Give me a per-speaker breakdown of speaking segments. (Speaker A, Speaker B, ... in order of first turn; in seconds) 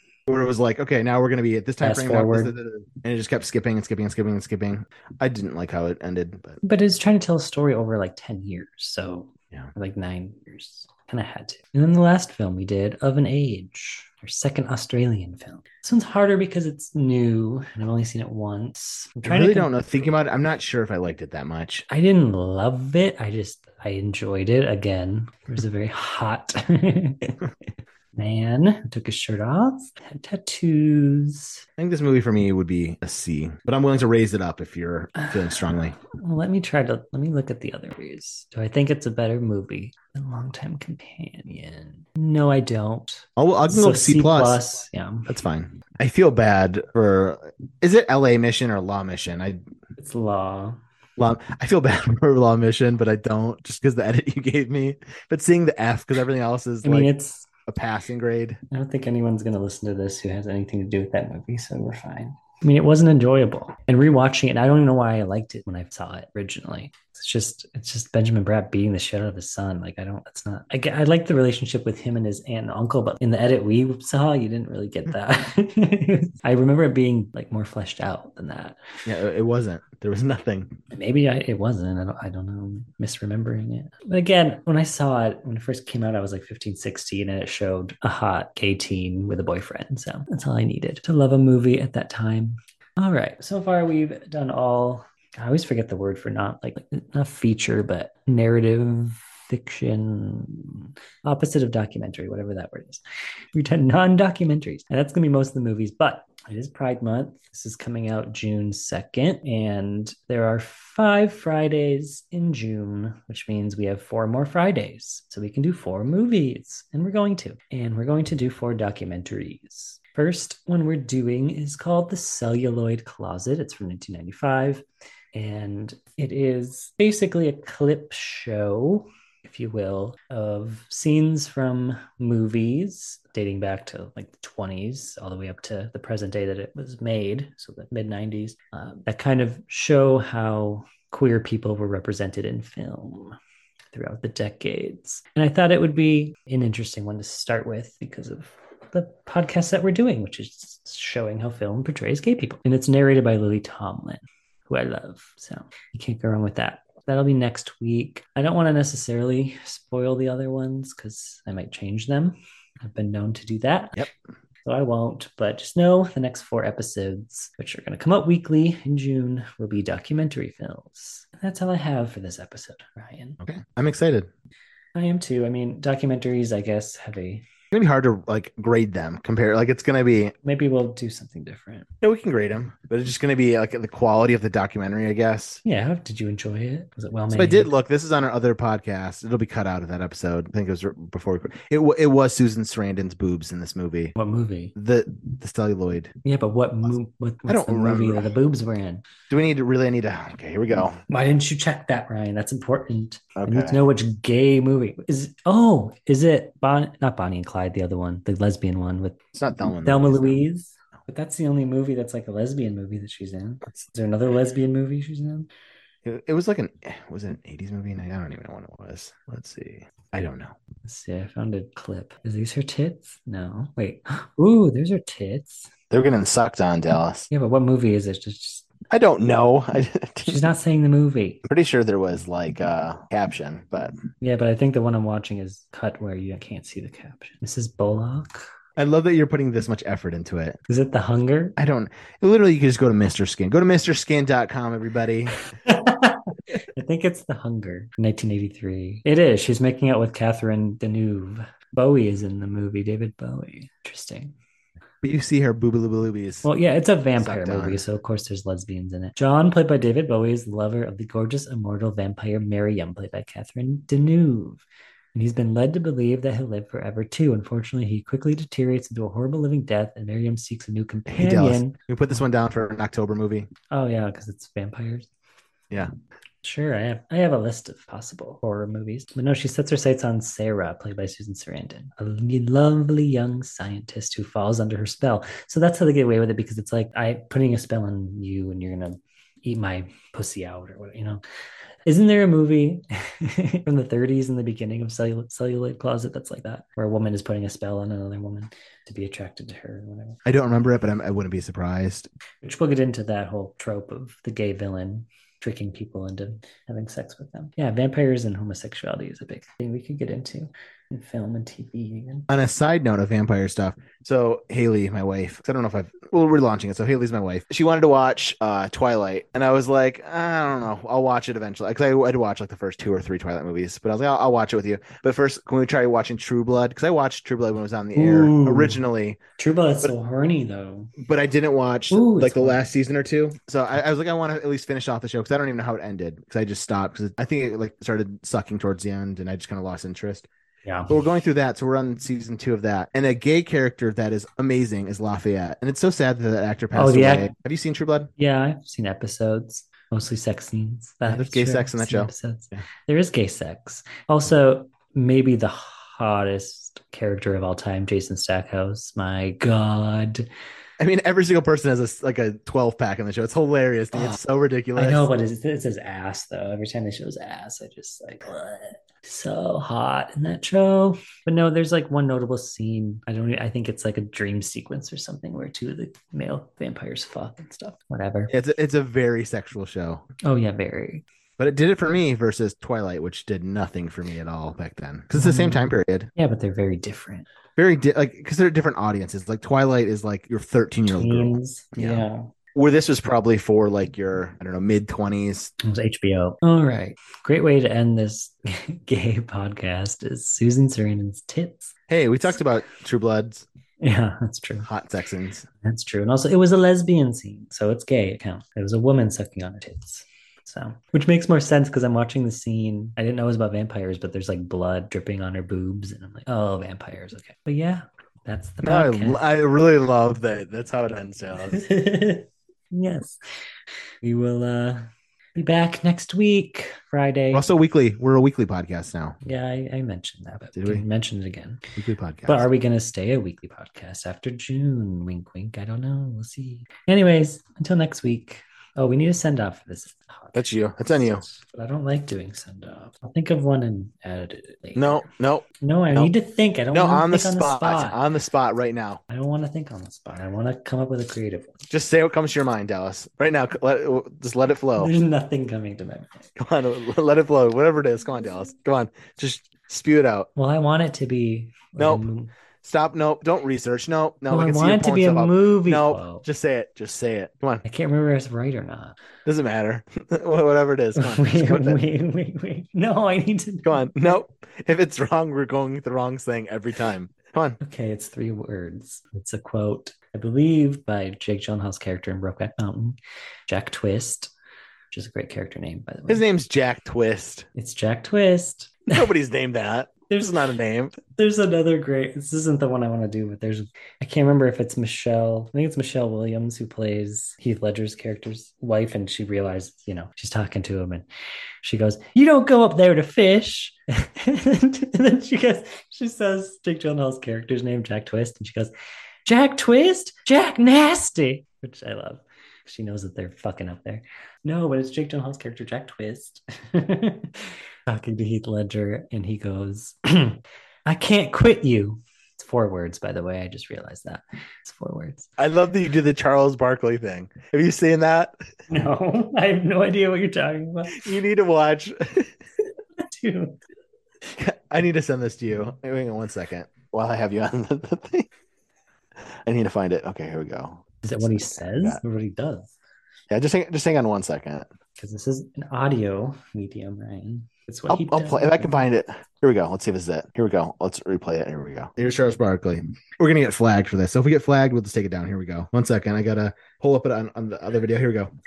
Speaker A: 0.3-6.6, 19.2-21.9, 31.8-35.9, 43.4-44.6, 45.3-49.6, 51.2-57.1, 57.7-58.6, 79.0-80.7, 173.4-174.3, 177.7-180.3, 182.0-185.6, 187.3-194.2, 194.8-196.1, 197.5-198.3, 199.3-201.0, 203.3-203.8, 209.3-210.4, 216.0-220.5, 225.9-227.3, 228.9-230.4, 231.4-233.9, 238.8-240.6, 241.6-245.4, 255.0-256.5, 257.1-257.8, 271.1-273.5, 300.2-302.1, 312.3-329.2, 331.0-340.3, 340.9-348.1, 351.0-352.6, 360.8-365.1, 378.3-380.0, 381.4-386.1, 387.6-395.5, 401.9-403.4, 404.6-405.5, 418.6-421.6, 427.3-429.2, 430.6-430.8, 431.8-432.5, 440.3-441.2, 444.8-446.1, 446.7-449.0, 451.7-454.9, 456.4-460.3, 461.8-462.0, 462.6-467.6, 469.2-471.8, 473.6-477.6, 486.1-487.5, 488.9-491.0, 525.4-528.5, 530.9-532.3, 534.4-538.3, 539.5-542.0, 543.3-544.7, 547.9-558.3
Speaker B: 1.8-2.5, 6.6-19.7, 21.9-27.4, 28.1-31.6, 35.2-45.3, 50.0-50.8, 56.8-57.5, 58.7-78.8, 80.9-103.0, 103.5-143.3, 143.9-164.1, 164.6-173.4, 174.9-177.4, 180.4-181.9, 185.6-187.7, 194.2-194.7, 196.2-199.0, 201.1-209.2, 209.8-215.5, 220.8-225.7, 227.3-228.7, 230.2-231.4, 234.2-238.4, 240.7-241.6, 245.5-254.3, 256.4-264.6, 265.1-271.8, 273.7-275.1, 276.4-291.2, 291.9-300.2, 302.4-312.3, 327.9-328.8, 329.4-330.9, 331.9-332.6, 340.6-341.0, 346.7-347.3, 348.2-360.3, 363.9-364.2, 364.8-378.3, 380.2-381.0, 385.1-387.2, 390.9-392.3, 395.6-401.7, 403.8-404.7, 405.6-419.2, 421.5-423.2, 424.0-427.5, 429.2-431.6, 432.3-445.0, 445.6-448.0, 449.1-451.5, 454.8-456.3, 460.4-462.3, 464.3-466.2, 467.6-469.0, 470.9-474.1, 477.6-483.0, 483.5-484.3, 484.9-486.2, 487.5-489.1, 490.1-490.3, 491.1-501.0, 501.6-508.7, 509.2-525.3, 528.7-531.1, 533.0-533.6, 541.0-542.7, 545.0-548.9